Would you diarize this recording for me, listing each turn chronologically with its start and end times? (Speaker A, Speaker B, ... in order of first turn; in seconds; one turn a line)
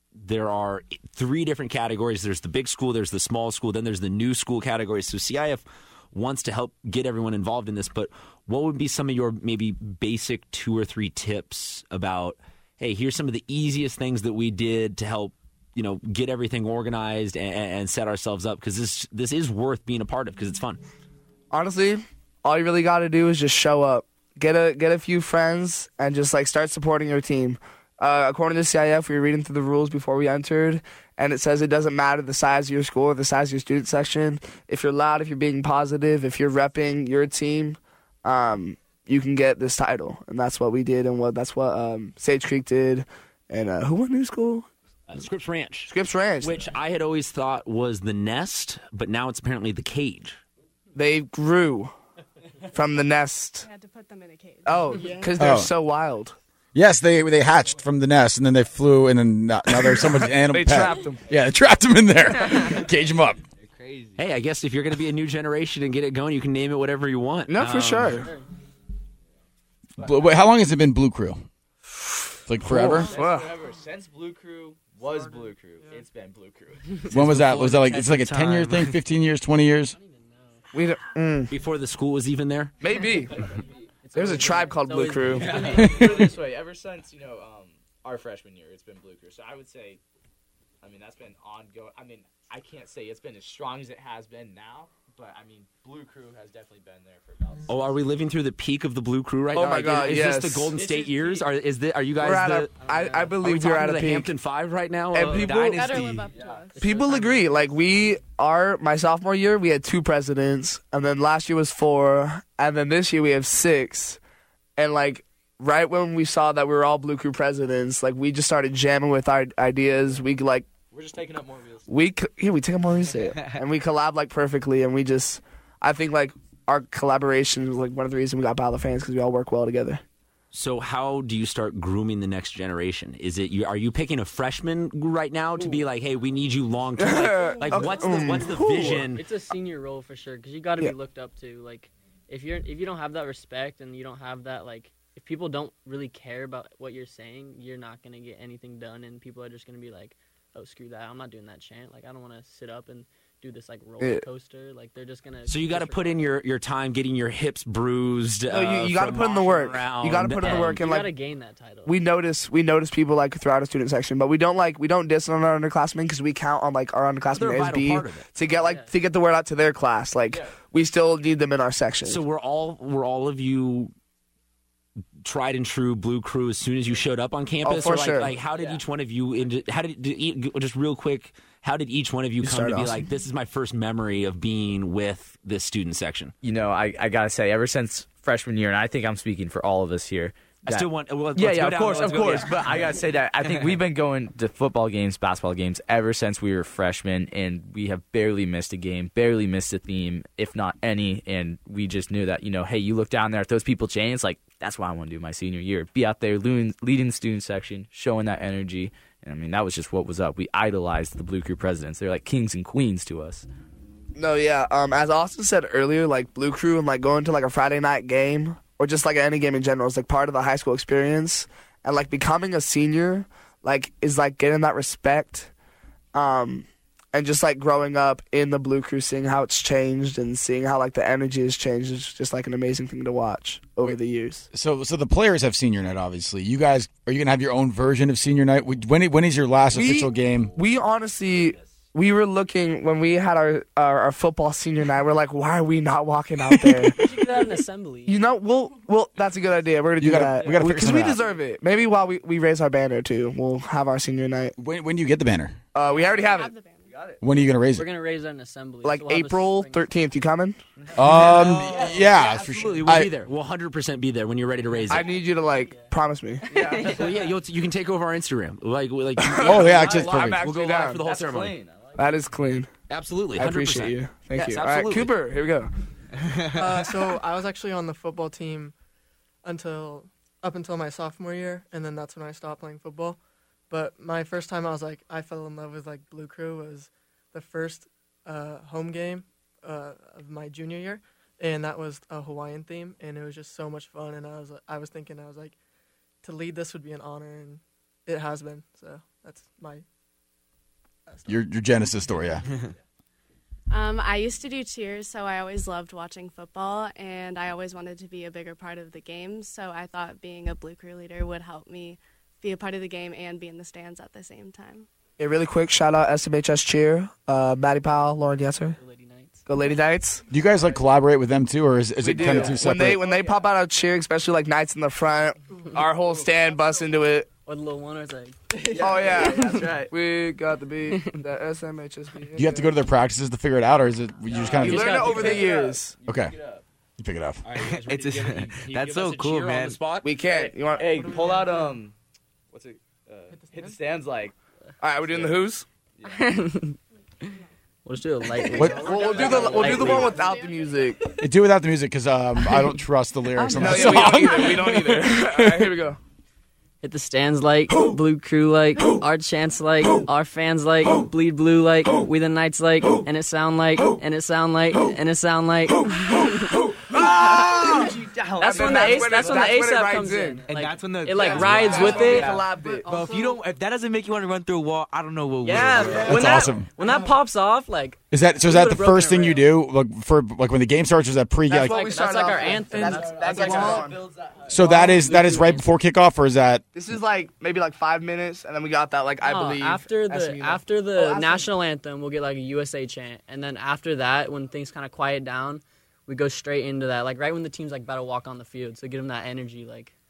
Speaker A: 0.2-20.8
Speaker B: 21.5-44.7
Speaker A: 45.1-50.4
Speaker B: 45.9-46.7
Speaker B: 50.9-51.9
Speaker B: 52.7-53.6
Speaker C: 53.6-55.4
Speaker B: 54.6-56.3
Speaker D: 55.4-55.7
Speaker D: 56.7-63.4
Speaker B: 59.7-61.2
Speaker E: 63.7-64.2
Speaker A: 64.2-68.3
Speaker B: 67.5-68.3
Speaker F: 68.0-68.5
Speaker D: 70.0-71.4
Speaker D: 72.5-73.1
Speaker B: 72.6-73.5
Speaker E: 72.8-77.0
Speaker D: 77.1-80.0
Speaker G: 77.1-79.0
Speaker F: 80.0-80.6
Speaker B: 80.7-81.5
Speaker A: 81.5-82.8
Speaker B: 82.8-83.4
Speaker F: 84.0-85.9
Speaker B: 84.1-86.0
Speaker E: 85.3-90.0
Speaker E: 90.8-98.0
Speaker A: 97.7-102.7
Speaker B: 99.5-100.8
Speaker E: 100.7-101.5
Speaker B: 102.2-104.3
Speaker F: 102.8-103.3
Speaker A: 103.4-105.9
Speaker B: 105.1-105.9
Speaker G: 105.3-106.3
Speaker C: 105.6-107.0
Speaker E: 106.3-106.7
Speaker B: 106.8-114.2
Speaker F: 106.8-107.5
Speaker B: 114.8-120.7
Speaker E: 120.9-121.9
Speaker B: 121.9-130.0
Speaker A: 130.5-139.2
Speaker B: 137.0-139.1
Speaker F: 137.6-138.3
Speaker F: 139.1-156.3
Speaker B: 154.0-154.2
Speaker A: 155.5-160.8
Speaker B: 158.5-161.2
Speaker F: 160.4-162.0
Speaker B: 161.8-172.2
Speaker A: 167.3-168.3
Speaker F: 168.4-168.9
Speaker E: 170.3-170.6
Speaker A: 172.0-173.9
Speaker A: 175.2-186.3
Speaker B: 177.6-178.4
Speaker E: 178.4-178.8
Speaker B: 182.4-183.0
Speaker E: 186.4-213.5
Speaker A: 190.7-192.7
Speaker B: 214.1-225.5
Speaker B: 226.1-234.4
Speaker D: 234.5-240.5
Speaker B: 239.7-247.3
Speaker D: 246.4-246.9
Speaker F: 246.9-248.2
Speaker B: 248.1-254.5
Speaker D: 250.0-251.2
Speaker E: 250.2-251.4
Speaker D: 254.6-255.6
Speaker B: 255.7-256.5
Speaker E: 255.8-256.2
Speaker C: 256.0-256.9
Speaker E: 256.9-257.2
Speaker D: 257.2-257.9
Speaker F: 257.7-259.9
Speaker B: 258.8-260.6
Speaker E: 260.8-262.8
Speaker D: 260.9-263.1
Speaker A: 262.4-265.1
Speaker B: 264.9-267.0
Speaker F: 266.5-267.0
Speaker E: 266.5-267.3
Speaker A: 266.8-271.6
Speaker B: 269.2-271.0
Speaker D: 269.4-270.4
Speaker E: 269.7-272.1
Speaker B: 271.9-272.7
Speaker A: 272.9-275.1
Speaker B: 273.4-275.7
Speaker H: 276.5-278.7
Speaker H: 279.4-283.2
Speaker H: 283.7-295.6
Speaker H: 296.2-299.8
Speaker H: 301.1-301.5
Speaker D: 301.3-302.4
Speaker H: 302.0-302.4
Speaker C: 303.7-314.9
Speaker B: 315.2-318.8
Speaker F: 318.8-319.4
Speaker B: 319.4-320.2
Speaker D: 320.3-323.0
Speaker B: 322.0-327.3
Speaker E: 323.0-323.4
Speaker F: 327.4-329.5
Speaker E: 328.6-329.9
Speaker B: 328.7-332.7
Speaker D: 332.3-335.2
Speaker E: 334.3-336.6
Speaker B: 334.5-335.9
Speaker F: 334.6-335.5
Speaker D: 336.1-336.3
Speaker D: 337.0-337.4
Speaker A: 337.5-338.0
Speaker G: 337.5-340.0
Speaker E: 337.6-339.1
Speaker A: 338.6-340.0
Speaker B: 340.0-341.0
Speaker E: 340.2-341.9
Speaker H: 340.8-341.8
Speaker E: 342.5-344.3
Speaker H: 343.3-343.8
Speaker B: 344.8-345.6
Speaker E: 345.0-345.4
Speaker E: 346.0-346.4
Speaker F: 346.1-346.8
Speaker F: 347.8-350.1
Speaker D: 348.5-348.9
Speaker H: 348.6-349.4
Speaker B: 348.6-351.0
Speaker C: 348.9-351.0
Speaker E: 348.9-349.9
Speaker D: 351.2-355.7
Speaker B: 353.4-356.0
Speaker F: 356.8-367.8
Speaker B: 366.9-370.4
Speaker E: 367.7-369.3
Speaker F: 368.4-372.4
Speaker G: 370.5-376.4
Speaker B: 371.2-372.9
Speaker H: 371.6-373.4
Speaker F: 375.4-379.5
Speaker D: 376.0-376.7
Speaker D: 378.1-381.9
Speaker B: 381.5-384.0
Speaker F: 381.6-383.8
Speaker H: 382.1-384.0
Speaker E: 383.1-384.6
Speaker D: 384.5-386.6
Speaker F: 384.6-385.7
Speaker B: 386.7-391.5
Speaker F: 389.2-399.9